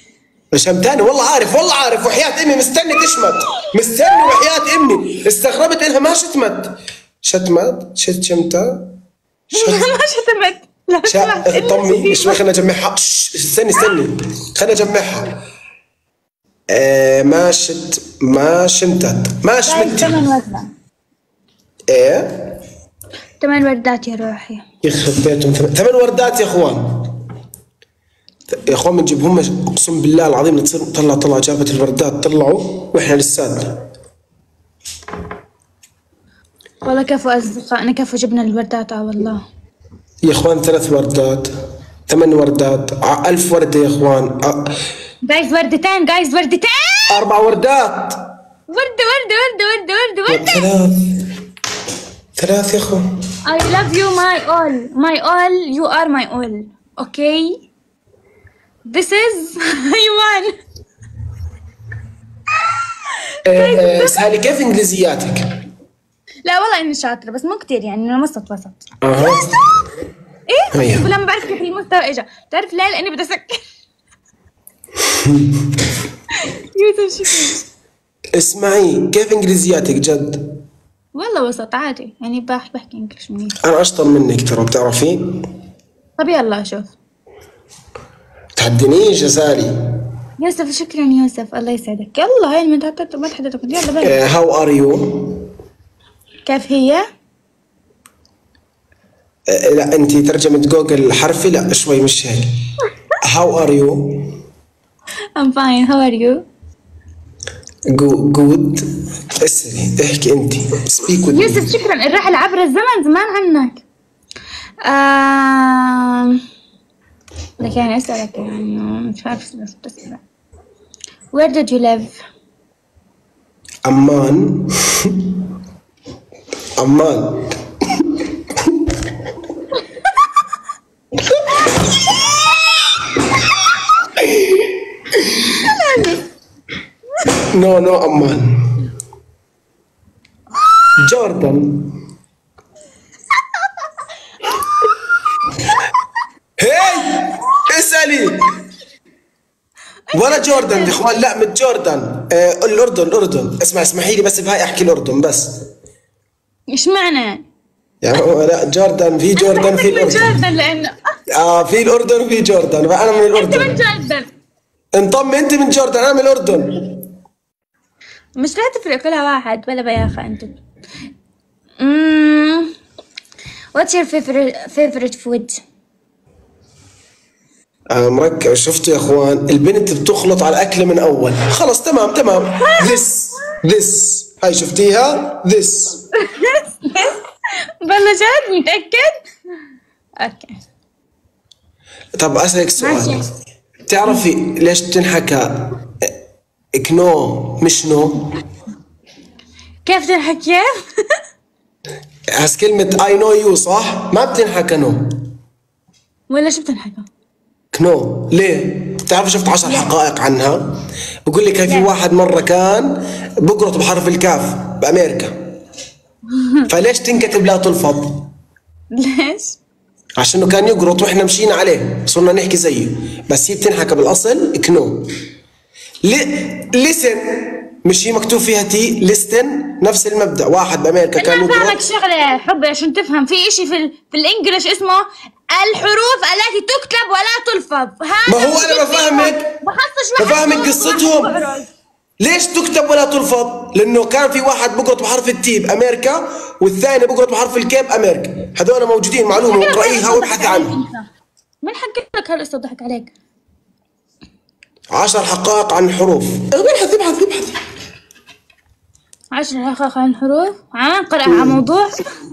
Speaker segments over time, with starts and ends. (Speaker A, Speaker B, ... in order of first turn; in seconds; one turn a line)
Speaker A: 0.5-8.8
Speaker A: 9.5-9.9
Speaker B: 9.5-12.4
Speaker A: 11.1-15.3
Speaker A: 16.7-20.2
Speaker B: 19.6-20.7
Speaker A: 21.9-22.4
Speaker B: 23.4-24.6
Speaker A: 24.8-27.1
Speaker A: 28.5-33.8
Speaker B: 36.8-39.4
Speaker A: 40.2-41.5
Speaker A: 42.1-44.7
Speaker B: 45.2-47.2
Speaker A: 47.1-48.2
Speaker B: 48.7-50.6
Speaker A: 50.3-51.0
Speaker A: 52.4-53.0
Speaker B: 53.5-57.6
Speaker B: 58.9-60.5
Speaker A: 63.5-65.5
Speaker B: 63.5-64.2
Speaker B: 66.5-69.6
Speaker A: 69.0-69.5
Speaker B: 70.5-73.6
Speaker A: 70.7-71.1
Speaker B: 76.8-77.6
Speaker A: 78.3-80.4
Speaker B: 81.2-83.5
Speaker A: 83.6-85.3
Speaker B: 86.2-86.9
Speaker A: 88.5-89.7
Speaker B: 90.4-94.1
Speaker A: 94.0-95.3
Speaker B: 96.5-97.0
Speaker A: 99.5-102.5
Speaker A: 103.2-104.2
Speaker B: 105.4-106.4
Speaker A: 107.9-108.8
Speaker A: 109.4-111.7
Speaker B: 111.3-113.8
Speaker B: 114.8-116.4
Speaker B: 117.6-120.2
Speaker B: 121.3-122.2
Speaker A: 123.8-125.1
Speaker A: 126.8-127.4
Speaker B: 135.6-136.2
Speaker A: 137.5-138.5
Speaker A: 141.0-141.9
Speaker A: 146.6-148.4
Speaker B: 150.1-151.0
Speaker A: 150.1-155.6
Speaker B: 156.7-157.4
Speaker A: 158.0-160.4
Speaker B: 159.4-161.0
Speaker A: 161.3-163.8
Speaker B: 163.4-164.3
Speaker A: 164.9-166.8
Speaker B: 168.4-170.6
Speaker B: 171.8-172.7
Speaker B: 173.7-175.6
Speaker A: 177.9-186.0
Speaker B: 182.6-182.9
Speaker B: 186.3-187.1
Speaker B: 187.8-189.2
Speaker B: 190.2-190.6
Speaker A: 192.2-193.2
Speaker B: 192.8-193.2
Speaker A: 193.9-196.1
Speaker A: 196.7-198.3
Speaker B: 199.8-200.7
Speaker A: 202.3-205.1
Speaker B: 206.3-207.1
Speaker A: 207.7-210.6
Speaker A: 211.3-215.3
Speaker A: 216.7-218.3
Speaker B: 218.9-219.6
Speaker A: 220.2-225.1
Speaker A: 226.0-227.2
Speaker A: 227.8-231.8
Speaker B: 231.2-241.7
Speaker A: 238.3-239.5
Speaker A: 240.2-241.3
Speaker A: 242.2-250.8
Speaker B: 249.3-251.1
Speaker B: 251.6-253.1
Speaker A: 254.9-257.5
Speaker B: 259.3-261.9
Speaker A: 261.2-261.6